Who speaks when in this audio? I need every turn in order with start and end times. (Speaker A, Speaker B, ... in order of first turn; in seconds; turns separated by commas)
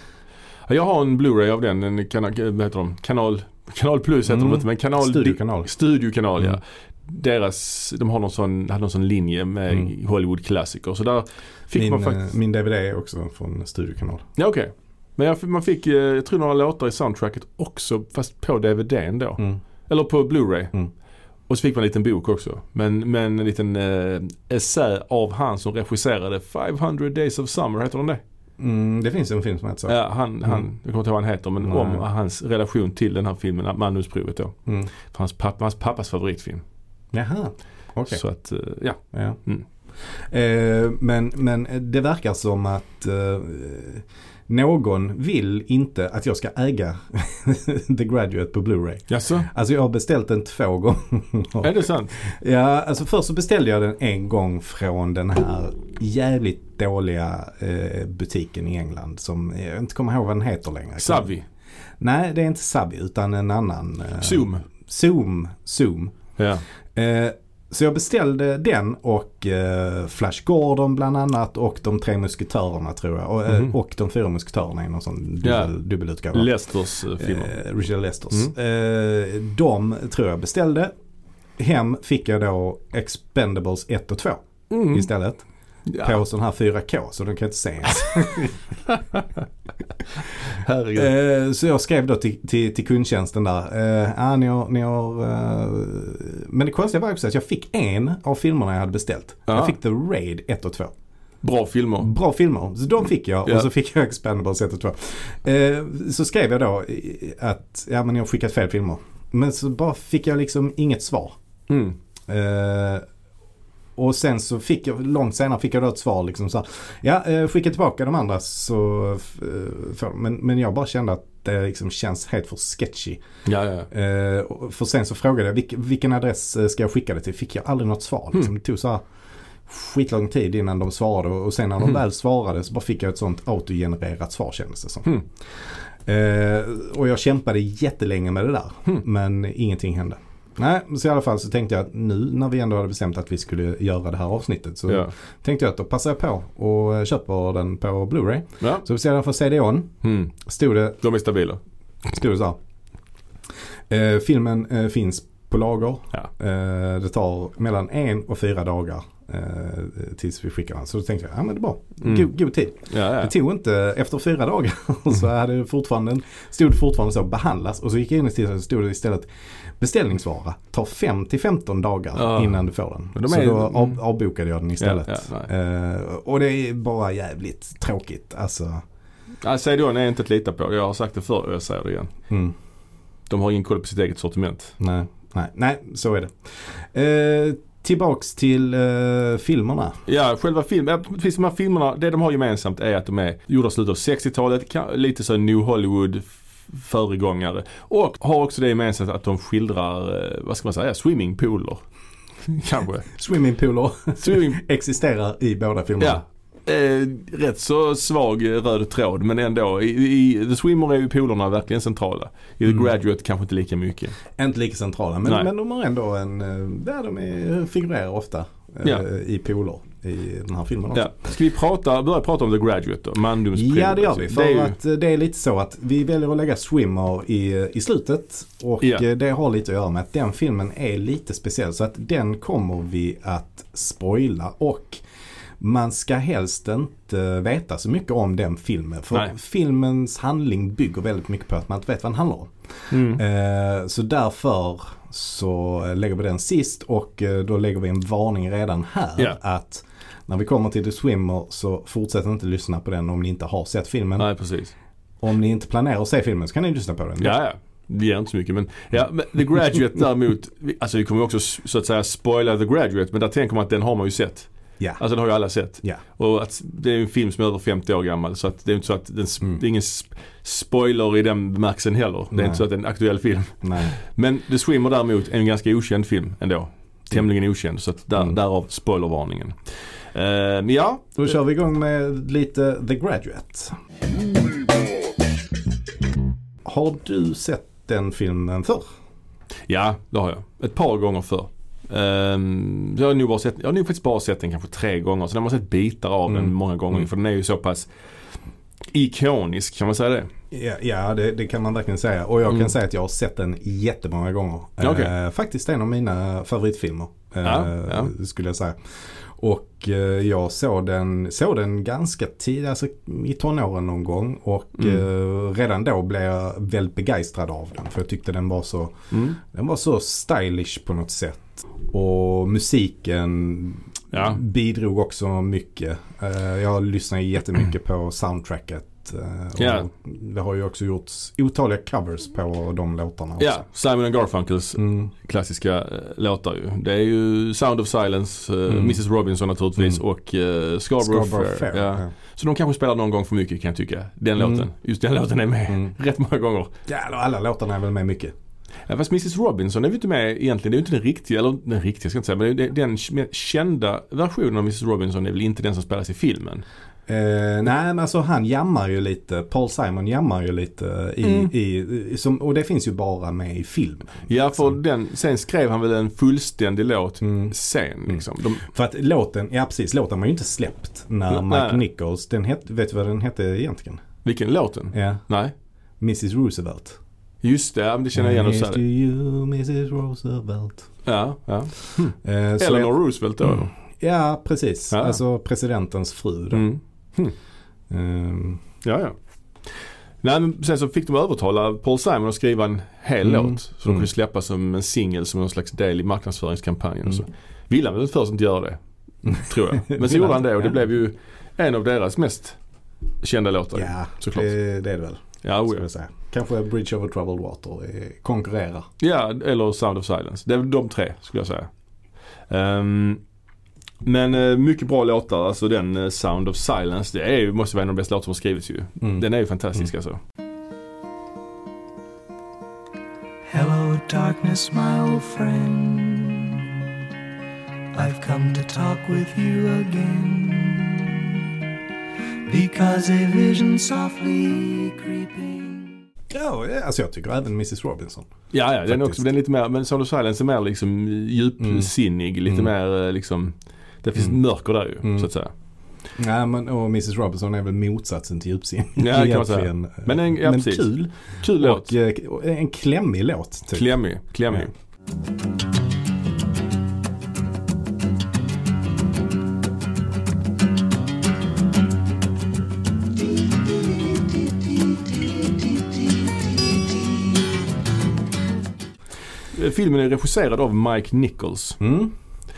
Speaker A: 0.7-12.3, Speaker B: 4.3-5.7, Speaker B: 11.8-14.3, Speaker A: 14.4-20.7, Speaker A: 21.5-28.2, Speaker B: 28.6-30.6, Speaker A: 29.9-36.6, Speaker B: 31.6-32.1, Speaker B: 34.7-34.9, Speaker B: 37.1-38.2, Speaker A: 38.1-39.6, Speaker B: 39.1-39.4, Speaker B: 40.1-61.3, Speaker A: 49.1-49.5, Speaker A: 51.6-52.2, Speaker A: 61.0-61.5, Speaker B: 62.0-66.1, Speaker A: 64.2-64.7, Speaker A: 66.4-66.6, Speaker B: 67.0-76.5, Speaker A: 75.4-75.7, Speaker A: 76.3-77.5, Speaker B: 77.2-80.9, Speaker B: 81.6-85.4, Speaker A: 84.7-85.1, Speaker A: 85.9-86.2, Speaker B: 86.0-88.6, Speaker A: 88.9-89.3, Speaker A: 90.5-91.1, Speaker B: 91.0-100.9, Speaker A: 99.5-99.8, Speaker A: 101.4-102.1, Speaker B: 102.0-111.4, Speaker A: 111.7-112.0, Speaker B: 112.3-113.0, Speaker B: 114.0-123.2, Speaker A: 123.5-123.9, Speaker B: 123.9-129.0, Speaker B: 129.7-135.1, Speaker B: 135.6-151.0, Speaker A: 144.9-145.1, Speaker A: 148.6-148.8, Speaker A: 150.0-150.3, Speaker A: 151.0-151.6, Speaker B: 152.1-152.6, Speaker B: 153.9-169.3, Speaker A: 162.0-162.3, Speaker A: 162.9-163.3, Speaker B: 169.8-178.8, Speaker A: 172.2-174.0, Speaker A: 174.8-175.5, Speaker A: 179.4-182.1, Speaker B: 182.3-182.5, Speaker A: 183.3-184.8, Speaker B: 184.8-190.0, Speaker A: 190.1-201.8, Speaker A: 202.4-203.1, Speaker B: 203.1-206.2, Speaker A: 204.2-204.6, Speaker A: 206.0-214.2, Speaker B: 214.3-221.1, Speaker A: 220.9-224.8, Speaker B: 223.5-235.0, Speaker B: 235.6-254.3, Speaker A: 242.9-243.2, Speaker A: 254.2-254.7, Speaker B: 255.2-257.4, Speaker A: 257.2-279.6, Speaker B: 272.3-272.6, Speaker B: 273.6-273.9, Speaker A: 280.1-281.2, Speaker B: 281.2-283.8, Speaker B: 286.6-288.9, Speaker A: 289.7-297.9, Speaker B: 296.3-297.0, Speaker A: 298.9-300.3, Speaker B: 300.5-333.6, Speaker A: 304.8-305.1, Speaker A: 307.4-308.1, Speaker A: 314.8-315.0, Speaker A: 319.1-319.4, Speaker A: 324.1-324.4, Speaker A: 329.6-329.9, Speaker A: 333.4-346.7, Speaker B: 334.8-335.1, Speaker B: 338.7-339.0, Speaker B: 341.0-342.1, Speaker B: 344.4-344.6, Speaker B: 346.9-348.3, Speaker A: 348.9-356.6, Speaker B: 357.1-364.7, Speaker A: 361.2-361.5, Speaker A: 364.3-368.7, Speaker B: 367.2-367.5, Speaker B: 368.1-374.0, Speaker A: 371.3-371.8, Speaker A: 374.2-375.5, Speaker B: 374.9-375.2, Speaker B: 376.0-377.0, Speaker A: 377.4-378.8, Speaker B: 378.1-380.9, Speaker A: 381.1-383.7, Speaker B: 382.2-386.7, Speaker A: 384.9-385.2, Speaker A: 386.5-387.4, Speaker B: 387.9-388.6, Speaker A: 388.8-389.2, Speaker A: 390.2-402.6, Speaker B: 393.2-394.1, Speaker B: 399.4-400.8, Speaker A: 403.2-404.5, Speaker B: 403.8-408.9, Speaker A: 405.4-405.9, Speaker A: 409.0-411.7, Speaker A: 412.5-413.2, Speaker A: 414.0-420.2, Speaker C: 423.5-426.8, Speaker C: 427.9-431.5, Speaker C: 432.5-436.0, Speaker B: 436.3-438.3, Speaker A: 438.5-445.5, Speaker B: 438.9-439.3, Speaker B: 441.6-441.9, Speaker B: 446.2-453.9, Speaker A: 449.0-451.9, Speaker A: 453.7-454.7, Speaker C: 464.1-467.4, Speaker A: 469.5-471.8, Speaker B: 471.8-472.1